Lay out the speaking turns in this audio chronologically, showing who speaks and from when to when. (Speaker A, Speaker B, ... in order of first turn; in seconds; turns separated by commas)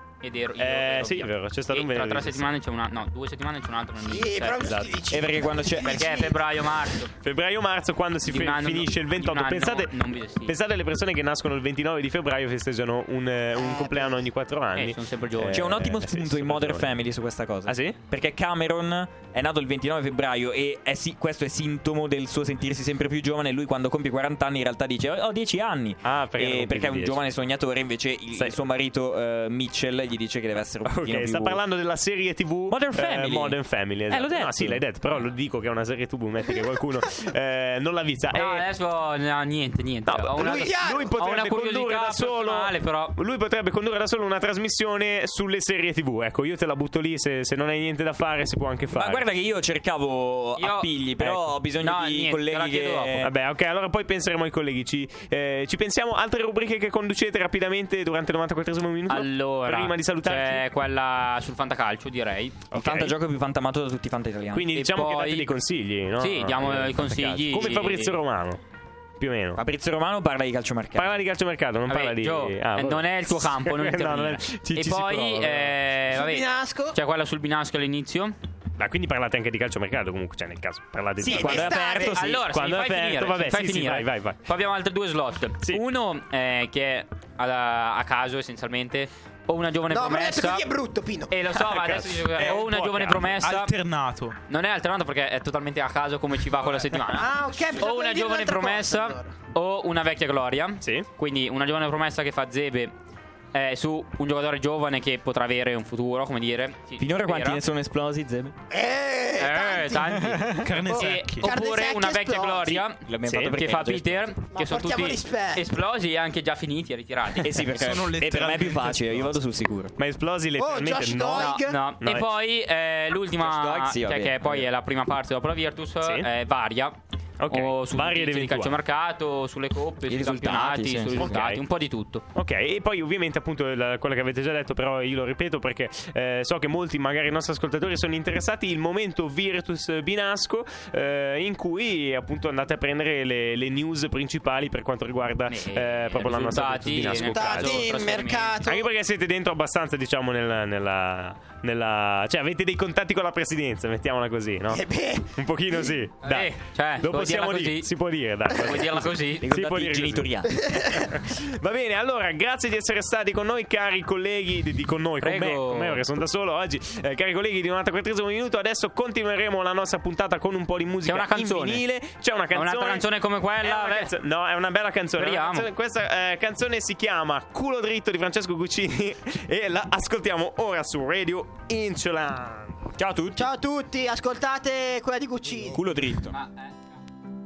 Speaker A: 0.2-4.8, Speaker B: 0.6-2.5, Speaker C: 4.0-6.4, Speaker B: 4.5-5.0, Speaker D: 5.1-6.1, Speaker A: 5.8-7.1, Speaker B: 7.1-16.9, Speaker A: 8.2-10.6, Speaker C: 13.6-14.3, Speaker A: 14.7-15.7, Speaker D: 15.5-31.6, Speaker B: 17.7-18.0, Speaker B: 26.0-27.2, Speaker B: 28.3-28.6, Speaker B: 30.8-38.7, Speaker D: 32.7-33.6, Speaker D: 34.1-34.9, Speaker A: 38.3-43.2, Speaker B: 40.1-49.3, Speaker C: 40.3-41.2, Speaker D: 48.9-53.3, Speaker A: 50.6-50.9, Speaker B: 51.2-51.5, Speaker A: 51.8-53.2, Speaker B: 53.2-60.6, Speaker A: 59.1-62.7, Speaker B: 62.7-63.2, Speaker D: 62.7-64.7, Speaker B: 64.5-68.6, Speaker A: 64.7-65.5, Speaker A: 66.2-68.2, Speaker B: 69.2-69.6, Speaker D: 69.6-71.2, Speaker B: 71.0-75.8, Speaker A: 71.9-78.4, Speaker C: 76.1-77.0, Speaker B: 78.8-81.8, Speaker D: 81.2-82.5, Speaker C: 81.2-82.2, Speaker A: 81.5-90.7, Speaker B: 82.4-84.4, Speaker C: 89.9-91.4, Speaker A: 91.3-93.7, Speaker B: 91.5-93.3, Speaker E: 92.4-94.4, Speaker A: 94.5-103.0, Speaker C: 97.0-99.3, Speaker B: 100.8-101.1, Speaker A: 103.5-107.6, Speaker D: 107.0-108.5, Speaker C: 108.7-110.1, Speaker A: 109.4-117.5, Speaker D: 110.1-110.7, Speaker E: 110.5-111.7, Speaker C: 110.8-112.8, Speaker D: 112.7-114.3, Speaker B: 113.2-113.6, Speaker C: 114.5-115.7, Speaker D: 117.4-119.9, Speaker E: 117.6-119.3, Speaker B: 120.0-122.3, Speaker C: 120.6-121.9, Speaker A: 121.3-127.0, Speaker D: 123.4-124.7, Speaker B: 126.0-126.3, Speaker B: 127.4-128.8, Speaker A: 127.5-132.2, Speaker D: 130.1-131.4, Speaker B: 131.2-131.6, Speaker B: 132.3-147.9, Speaker A: 145.5-148.6, Speaker C: 147.1-148.9, Speaker B: 148.7-154.8, Speaker C: 154.7-156.0, Speaker B: 155.3-160.3, Speaker A: 156.2-157.9, Speaker A: 158.5-159.5, Speaker D: 159.2-160.8, Speaker C: 160.6-161.0, Speaker B: 160.9-173.1, Speaker A: 165.2-166.0, Speaker A: 171.1-171.8, Speaker A: 172.5-174.1, Speaker B: 173.6-182.9, Speaker A: 175.2-175.7, Speaker D: 183.0-183.5, Speaker C: 183.4-185.8, Speaker D: 185.7-186.4, Speaker A: 186.3-186.7